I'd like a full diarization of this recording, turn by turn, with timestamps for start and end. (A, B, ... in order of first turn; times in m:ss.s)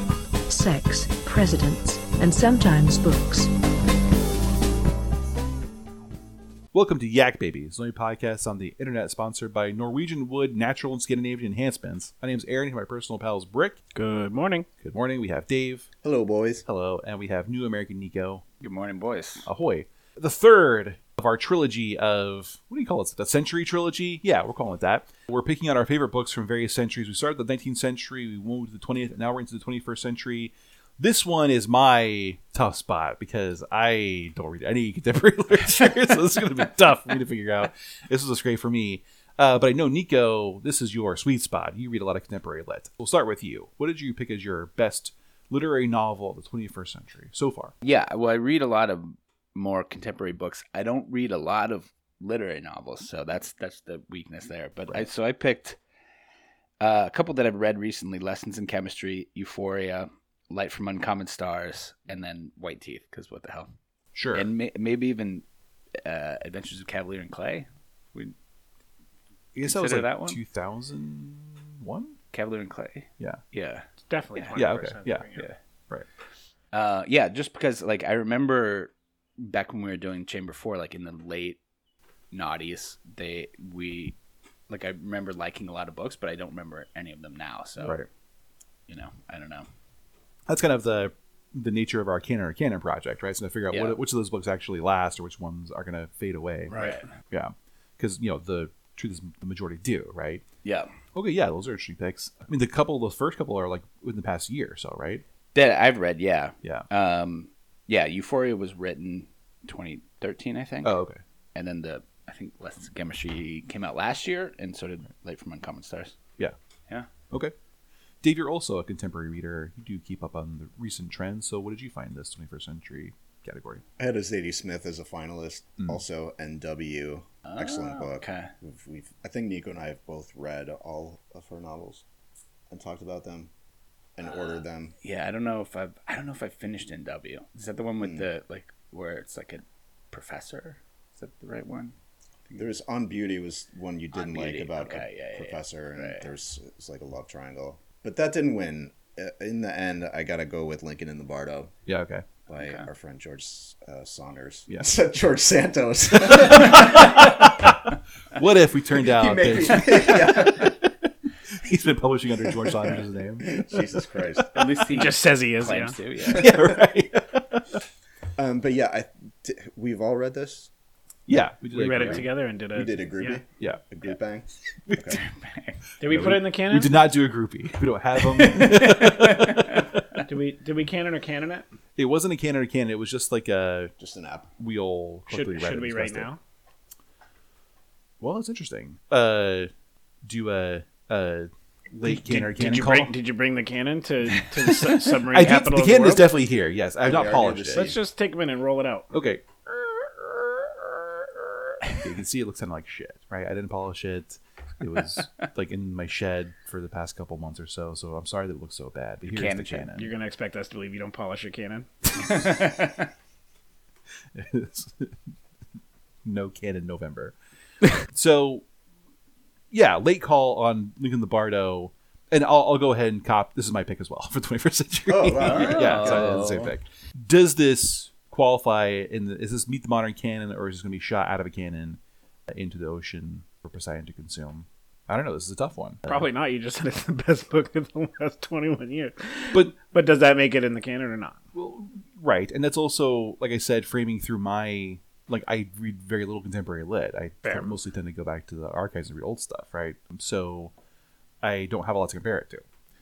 0:00.5-0:03.5 A
0:06.7-0:13.8 B
0:13.9-0:14.7 C
0:14.8-0:15.9 B
0:16.0-0:16.6 D
0:16.7-0:18.4 B
0:18.6-0:19.5 E
0:19.4-0:47.7 B
0:47.8-0:55.8 E
0:56.8-1:03.7 E
1:04.1-1:04.5 B
1:04.3-1:05.4 E
1:06.0-1:08.4 E
1:09.6-1:12.2 B
1:09.6-1:10.4 E
1:12.3-1:13.8 E
1:14.1-1:15.5 C
1:14.4-1:14.6 E
1:14.6-1:15.3 B
1:16.7-1:21.6 E
1:22.3-1:24.2 E
1:24.7-1:28.0 E
1:27.8-1:28.1 B
1:28.9-1:29.7 E
1:30.5-1:40.4 B
1:33.7-1:34.0 E
1:36.7-1:37.0 E
1:40.6-1:40.9 E
1:41.2-1:45.2 B
1:45.5-1:51.0 E
1:46.6-1:46.9 B
1:50.8-1:51.2 B
1:51.6-1:56.2 E
1:58.2-2:03.8 B
2:04.0-2:12.0 D
2:07.5-2:08.5 E
2:12.7-2:13.5 D
2:14.2-2:14.9 D
2:15.0-2:22.0 E
2:18.0-2:18.3 D
2:22.6-2:31.7 D
2:24.1-2:26.3 E
2:31.9-2:32.3 B
2:32.5-2:37.1 D
2:32.6-2:32.9 E
2:36.3-2:37.8 B
2:38.4-2:40.9 B
2:39.0-2:40.7 D
2:41.6-2:44.4 B
2:42.4-2:45.0 D
2:44.5-2:46.5 E
2:44.9-2:46.0 C
2:46.3-2:47.8 B
2:48.4-2:50.7 D
2:51.3-2:52.3 B
2:51.7-2:53.4 C
2:52.7-2:55.2 D
2:53.6-2:53.8 B
2:55.1-2:55.8 E
2:56.0-2:57.0 C
2:56.1-2:59.9 B
2:58.4-2:59.9 E
3:00.2-3:01.7 C
3:02.0-3:03.9 B
3:04.0-3:04.5 D
3:04.6-3:06.3 B
3:05.3-3:06.4 C
3:08.2-3:09.7 B
3:10.3-3:13.1 B
3:12.0-3:16.3 C
3:15.0-3:18.0 B
3:17.0-3:18.0 D
3:17.7-3:19.1 C
3:19.1-3:30.1 B
3:29.2-3:29.9 E
3:29.9-3:31.9 C
3:32.3-3:33.1 E
3:34.4-3:35.1 B
3:36.2-3:37.4 B
3:38.1-3:38.6 B
3:39.7-3:56.3 B
3:45.1-3:46.7 D
3:45.4-3:46.7 E
3:56.1-4:01.4 C
4:01.5-4:10.7 B
4:07.4-4:07.8 C
4:11.4-4:12.6 B